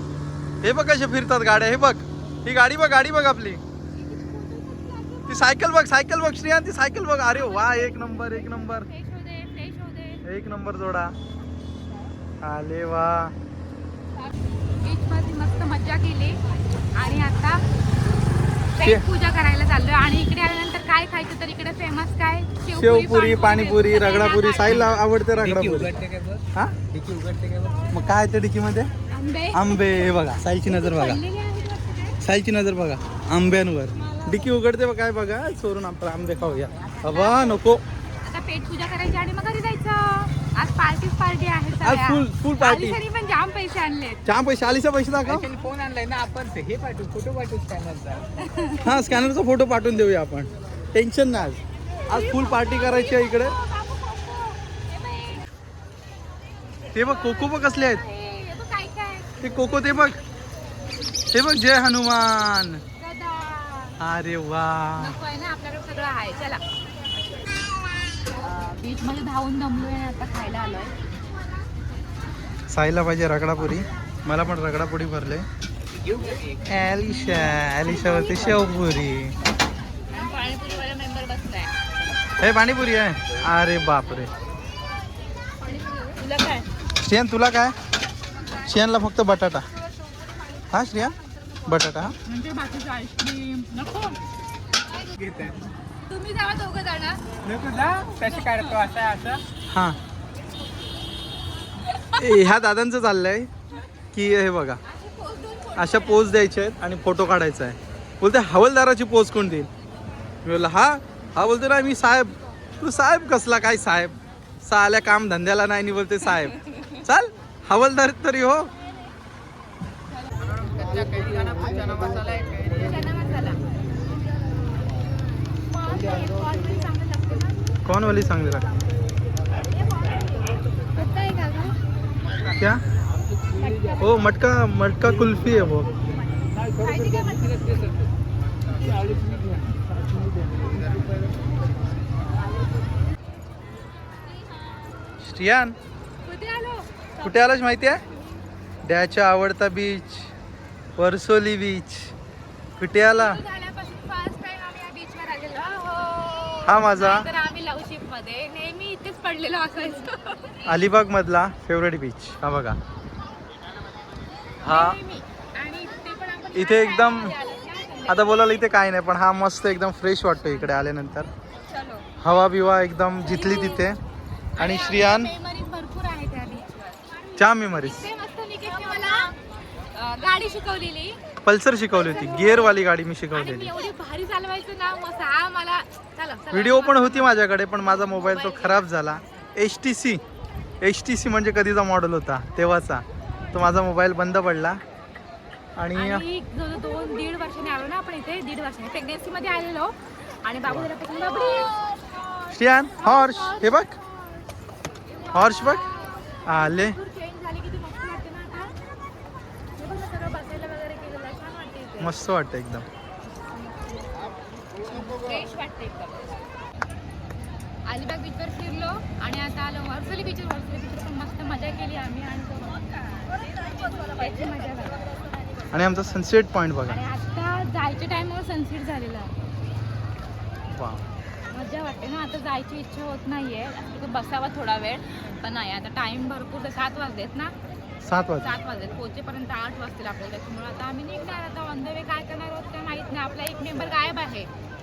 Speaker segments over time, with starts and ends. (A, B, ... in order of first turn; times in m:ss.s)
0:00.6-0:03.6 A
0:04.0-0:05.5 B
0:05.3-0:08.9 A
0:07.3-0:10.2 B
0:10.2-0:11.1 A
0:12.4-0:13.3 A
0:14.8-0:16.4 B
0:16.9-0:17.6 B
0:18.7-0:25.0 B
0:18.8-0:19.0 A
0:22.7-0:25.9 A
0:24.6-0:27.9 C
0:27.9-0:28.9 A
0:29.1-0:32.2 B
0:29.5-0:31.2 A
0:32.2-0:37.8 A
0:34.0-0:34.5 B
0:36.8-0:37.6 B
0:38.2-0:44.2 B
0:41.8-0:43.0 A
0:44.2-0:45.5 A
0:45.2-0:48.2 C
0:48.4-0:48.9 B
0:48.8-0:53.6 A
0:52.1-0:55.4 B
0:56.9-0:58.0 A
0:57.0-0:59.3 B
0:59.4-1:00.2 A
1:01.3-1:02.8 A
1:03.0-1:04.0 B
1:04.0-1:05.2 A
1:05.0-1:06.6 B
1:08.4-1:10.9 B
1:12.7-1:15.4 A
1:16.0-1:16.6 C
1:16.7-1:19.4 A
1:17.8-1:18.7 B
1:20.1-1:21.7 B
1:22.4-1:24.3 A
1:25.6-1:26.6 B
1:27.0-1:27.7 A
1:28.6-1:29.6 A
1:30.7-1:32.1 A
1:32.2-1:34.2 B
1:35.1-1:35.6 C
1:36.0-1:37.2 B
1:37.4-1:39.4 C
1:38.2-1:38.8 B
1:39.7-1:40.0 A
1:41.8-1:42.2 B
1:42.1-1:43.5 A
1:44.1-1:44.8 A
1:44.8-1:46.3 B
1:45.8-1:49.7 A
1:50.4-1:58.7 A
2:00.4-2:02.9 A
2:01.0-2:02.9 C
2:02.8-2:03.6 B
2:05.7-2:07.5 B
2:07.8-2:08.7 A
2:11.0-2:11.7 C
2:12.6-2:12.8 A
2:13.6-2:14.0 C
2:13.6-2:14.0 B
2:14.0-2:15.9 A
2:16.7-2:18.0 B
2:18.8-2:19.6 C
2:20.2-2:21.0 C
2:25.2-2:25.8 A
2:26.2-2:27.5 B
2:27.2-2:28.0 A
2:28.8-2:30.3 A
2:31.0-2:32.1 A
2:32.8-2:33.4 A
2:33.0-2:40.7 B
2:36.7-2:37.3 A
2:40.6-2:42.8 A
2:44.6-2:45.0 A
2:44.6-2:48.6 B
2:46.5-2:47.3 A
2:48.1-2:51.3 A
2:51.7-2:52.1 B
2:52.2-2:54.0 A
2:53.3-2:54.0 B
2:54.6-2:55.3 A
2:54.6-2:59.3 B
2:57.4-2:58.0 A
2:59.9-3:01.2 B
3:01.4-3:03.7 A
3:01.9-3:02.8 B
3:03.3-3:07.4 B
3:06.5-3:10.2 A
3:07.9-3:09.0 B
3:10.8-3:14.8 A
3:15.8-3:16.2 A
3:15.9-3:24.5 B
3:22.5-3:23.9 A
3:25.1-3:28.7 B
3:25.3-3:25.8 A
3:26.5-3:27.0 A
3:29.8-3:32.1 B
3:32.0-3:32.8 A
3:33.3-3:34.3 B
3:34.8-3:36.3 B
3:37.9-3:42.9 B
3:43.6-3:45.0 B
3:45.7-3:47.0 A
3:46.9-3:49.3 B
3:50.7-3:51.0 A
3:51.5-3:57.5 B
3:58.0-3:58.5 A
3:58.4-4:04.5 B